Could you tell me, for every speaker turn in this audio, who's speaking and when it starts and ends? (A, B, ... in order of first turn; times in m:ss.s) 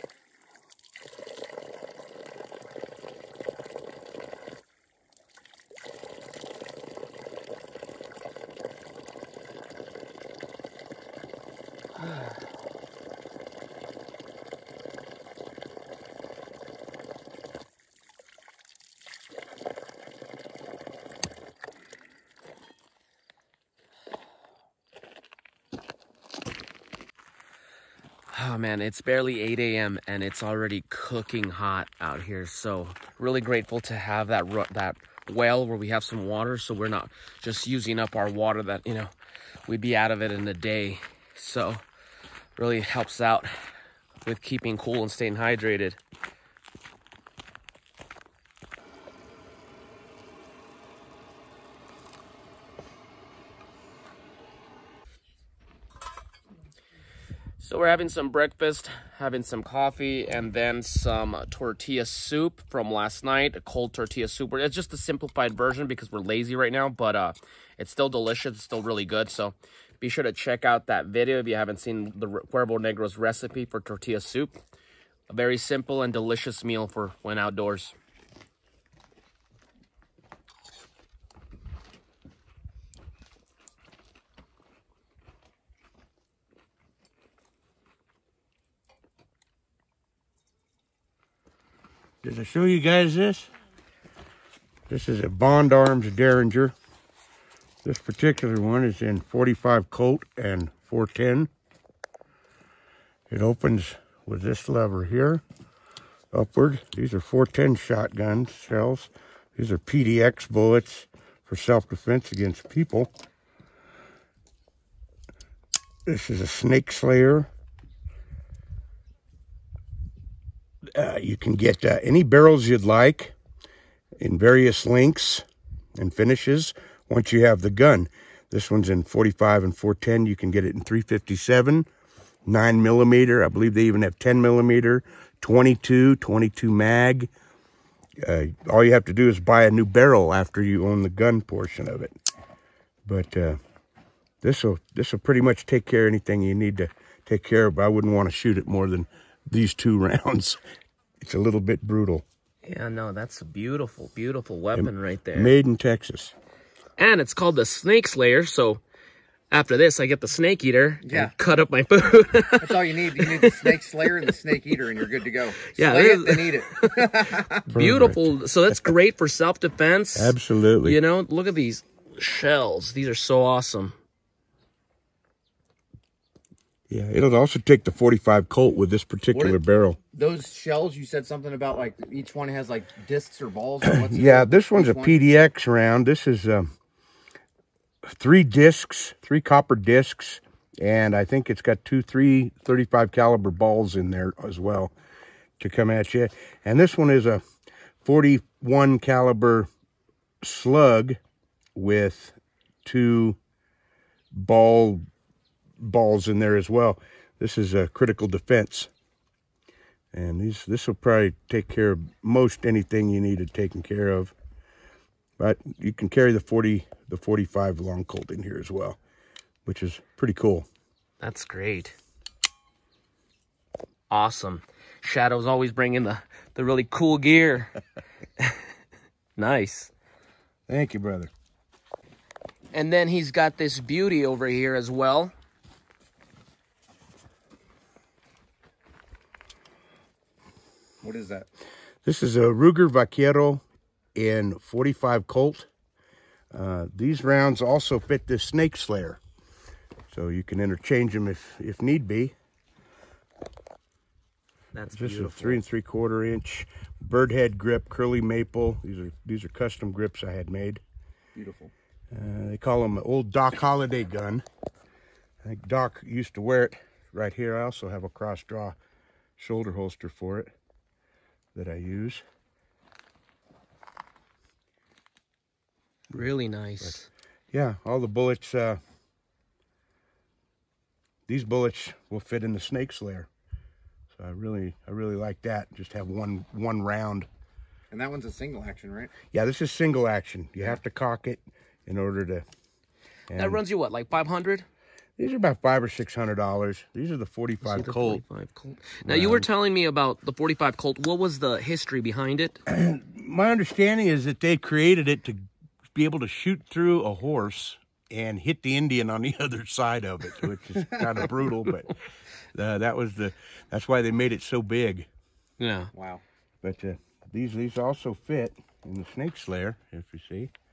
0:28.3-0:39.1 A
0:39.7-0:41.8 A
0:42.6-0:43.5 A
0:44.2-0:46.0 A
0:57.6-1:14.6 A
1:15.3-1:18.0 A
1:32.2-1:33.5 B
1:34.9-1:36.7 B
1:37.8-1:41.5 B
1:43.3-1:45.4 B
1:46.3-1:53.1 B
1:56.1-1:57.5 B
2:01.0-2:03.3 B
2:04.2-2:05.4 B
2:06.0-2:11.9 B
2:12.4-2:17.3 B
2:18.2-2:22.1 B
2:23.1-2:23.6 B
2:24.4-2:30.6 B
2:31.2-2:32.2 B
2:32.6-2:35.5 A
2:34.8-2:36.3 B
2:37.0-2:38.8 A
2:39.5-2:43.7 A
2:41.0-2:41.3 C
2:42.6-2:47.6 C
2:45.7-2:54.0 A
2:47.7-2:48.9 B
2:50.2-2:51.0 B
2:56.9-3:00.0 B
2:59.3-2:59.6 C
3:00.1-3:05.2 C
3:03.8-3:06.7 B
3:08.0-3:14.9 B
3:15.6-3:17.4 B
3:18.0-3:19.7 B
3:20.4-3:21.2 B
3:21.8-3:23.4 B
3:24.3-3:25.0 B
3:25.8-3:28.9 B
3:30.1-3:34.3 B
3:35.4-3:39.0 B
3:39.6-3:40.7 B
3:41.2-3:42.0 A
3:44.1-3:47.8 A
3:49.4-3:49.9 A
3:50.7-3:51.3 B
3:52.7-3:55.3 A
4:01.0-4:01.5 C
4:02.0-4:03.6 B
4:04.2-4:05.7 B
4:06.5-4:09.2 B
4:10.1-4:12.4 B
4:14.7-4:15.6 A
4:14.9-4:20.8 B
4:21.4-4:21.7 C
4:22.1-4:24.4 B
4:25.4-4:28.8 B
4:29.4-4:30.5 B
4:31.5-4:32.2 B
4:36.1-4:37.1 A
4:37.5-4:38.8 B
4:41.3-4:43.3 B
4:44.1-4:47.3 B
4:47.9-4:49.1 C
4:49.3-4:52.4 B
4:53.3-4:53.6 B
4:53.4-4:54.7 A
4:55.2-4:58.2 B
4:57.6-5:02.6 A
4:59.0-4:59.5 B
5:02.7-5:11.9 B
5:12.5-5:15.1 B
5:15.6-5:15.9 A
5:15.9-5:16.2 C
5:16.6-5:20.5 B